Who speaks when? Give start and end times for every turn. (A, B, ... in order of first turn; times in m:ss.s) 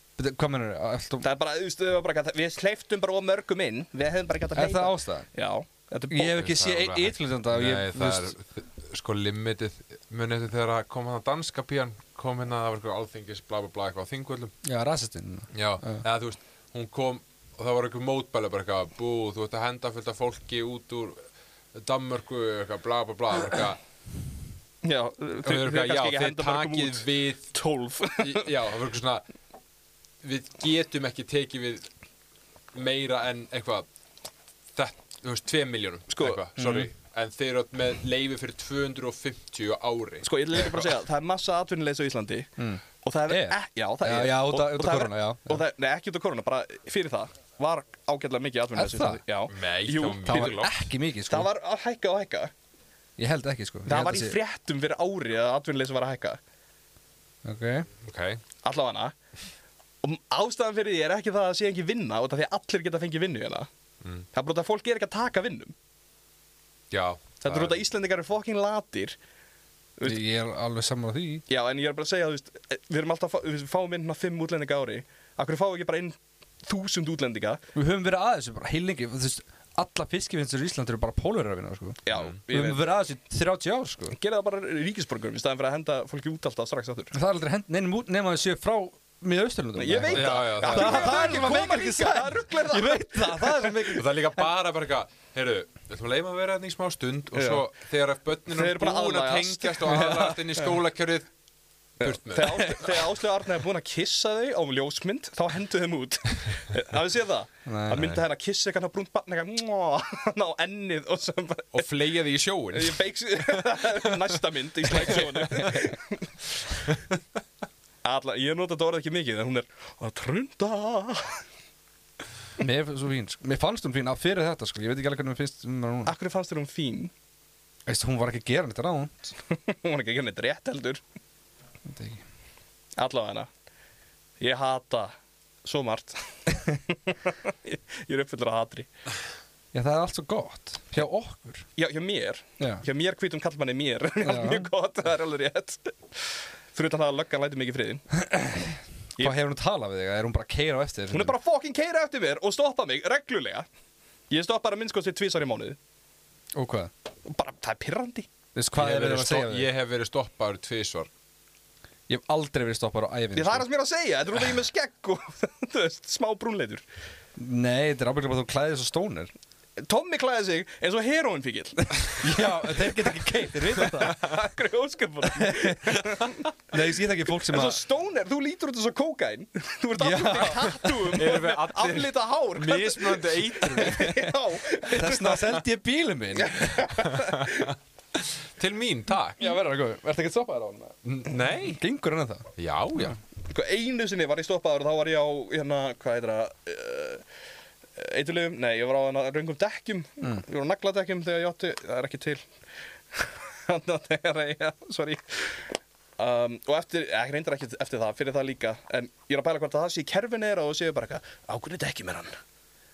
0:00.2-0:01.2 A
0:01.2-0:06.4 B
0:04.6-0:05.3 A
0:06.1-0:08.3 A
0:06.4-0:14.6 C
0:14.6-0:16.0 A
0:15.5-0:23.8 C
0:24.8-0:28.5 B
0:25.4-0:27.6 C
0:28.2-0:29.2 C
0:30.2-0:31.9 C
0:32.7-0:33.9 C
0:34.7-0:40.9 C
0:36.1-0:36.4 B
0:36.6-0:36.9 A
0:40.2-0:42.5 B
0:42.6-0:45.6 A
0:43.0-0:50.6 B
0:48.7-0:49.2 A
0:49.5-0:50.7 C
0:50.2-0:51.5 A
0:51.3-0:52.5 B
0:53.2-0:54.4 A
0:53.9-0:56.4 B
0:57.4-0:57.9 A
0:58.0-0:58.4 C
0:58.6-0:59.1 B
1:00.0-1:03.7 B
1:04.0-1:04.3 C
1:04.3-1:05.7 B
1:06.9-1:07.8 C
1:07.4-1:09.2 B
1:10.0-1:11.4 A
1:11.5-1:17.6 B
1:17.7-1:24.2 A
1:22.0-1:22.8 B
1:24.1-1:27.1 B
1:27.1-1:34.4 A
1:29.8-1:33.8 B
1:30.1-1:31.4 C
1:33.8-1:41.3 C
1:37.3-1:37.6 B
1:38.5-1:40.7 B
1:42.0-1:42.9 C
1:42.0-1:51.9 B
1:47.6-1:48.1 A
1:47.9-1:48.2 C
1:51.7-1:54.0 C
1:52.7-1:56.4 B
1:55.0-1:55.7 C
1:58.0-2:01.4 B
2:02.6-2:06.1 A
2:06.1-2:07.1 B
2:07.9-2:09.3 A
2:09.5-2:11.0 B
2:11.9-2:12.2 A
2:13.0-2:13.5 B
2:14.4-2:18.9 B
2:19.7-2:21.7 A
2:21.8-2:28.0 B
2:22.6-2:22.8 A
2:24.2-2:24.7 A
2:28.2-2:31.4 A
2:31.1-2:33.6 B
2:34.3-2:35.8 B
2:36.6-2:36.9 A
2:37.2-2:38.3 B
2:38.6-2:39.7 A
2:38.7-2:41.1 C
2:42.1-2:43.6 A
2:43.4-2:46.8 B
2:47.4-2:49.3 A
2:49.8-2:52.4 B
2:52.2-2:54.2 A
2:53.7-2:56.5 B
2:55.4-2:57.8 A
2:57.4-3:05.6 B
3:00.0-3:00.9 A
3:01.1-3:04.1 C
3:03.8-3:04.3 A
3:04.8-3:06.9 A
3:06.4-3:07.7 B
3:07.0-3:09.5 C
3:09.4-3:13.1 A
3:11.0-3:11.8 C
3:12.6-3:13.2 C
3:13.5-3:17.2 B
3:18.0-3:22.4 B
3:23.1-3:32.3 B